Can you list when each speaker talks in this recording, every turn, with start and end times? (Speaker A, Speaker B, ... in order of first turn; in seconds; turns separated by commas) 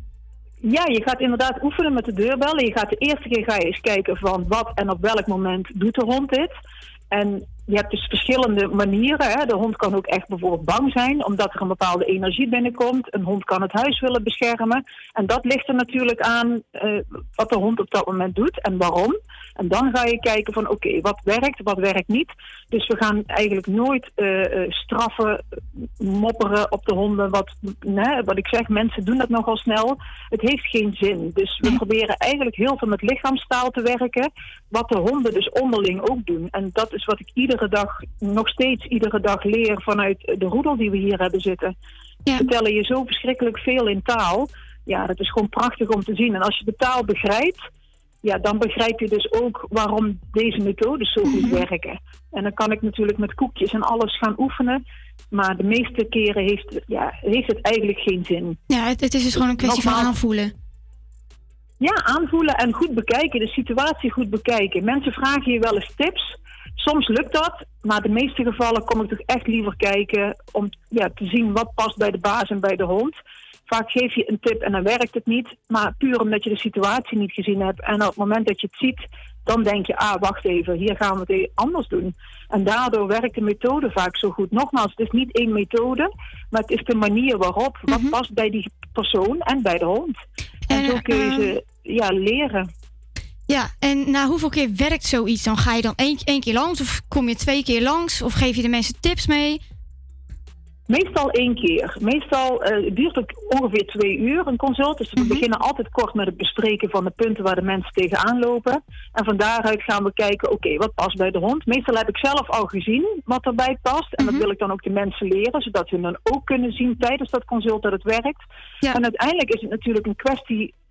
Speaker A: 0.7-6.5, Speaker A: 7.1-25.4, Speaker A: 26.0-41.7, Speaker A: 42.4-47.6, Speaker A: 48.2-54.8, Speaker B: 51.3-51.6, Speaker A: 55.3-58.6, Speaker B: 58.7-60.5, Speaker A: 59.6-60.1, Speaker A: 61.8-73.1, Speaker A: 73.7-90.1, Speaker B: 87.9-88.1, Speaker B: 90.7-91.5, Speaker A: 90.7-92.7, Speaker B: 93.5-99.6, Speaker A: 100.9-118.4, Speaker B: 105.2-105.4, Speaker A: 118.9-120.7